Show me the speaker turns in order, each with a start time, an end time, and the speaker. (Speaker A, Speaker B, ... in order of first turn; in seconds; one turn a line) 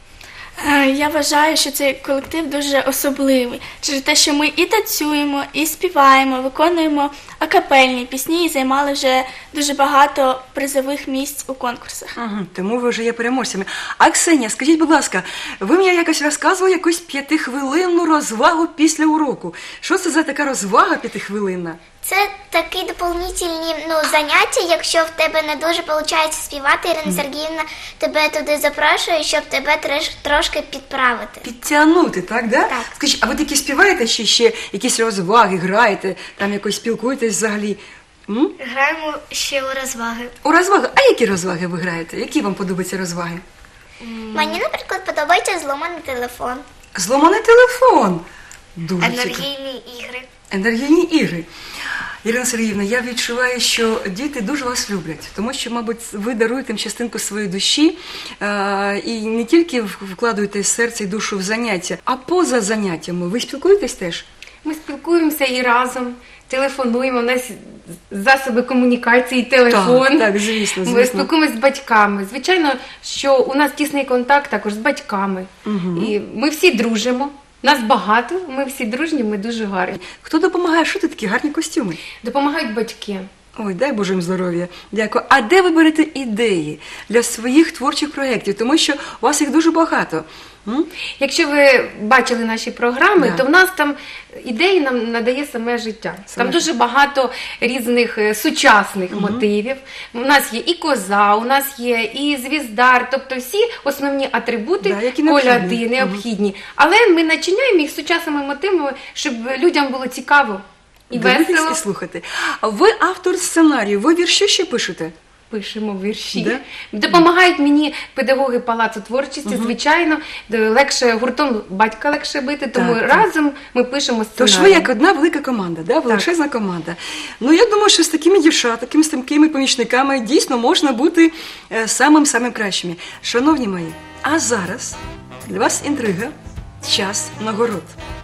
Speaker A: 0.6-12.1
Speaker B: 12.2-21.8
Speaker C: 22.0-31.4
Speaker B: 31.4-38.5
Speaker C: 38.6-40.3
Speaker B: 40.4-43.4
Speaker C: 44.0-46.6
Speaker B: 46.9-48.2
Speaker B: 48.8-49.5
Speaker C: 49.0-50.3
Speaker B: 50.5-51.5
Speaker B: 52.2-64.2
Speaker D: 64.6-70.3
Speaker B: 69.7-71.3
Speaker D: 70.8-80.0
Speaker B: 75.7-76.1
Speaker B: 80.0-82.0
Speaker D: 82.2-83.3
Speaker B: 83.5-90.9
Speaker D: 91.2-111.8
Speaker B: 96.3-96.6
Speaker B: 99.1-99.4
Speaker B: 104.8-106.2
Speaker B: 111.1-115.1
Speaker D: 115.5-124.9
Speaker B: 116.3-117.2
Speaker B: 119.5-119.7
Speaker B: 122.7-123.2
Speaker B: 124.4-137.9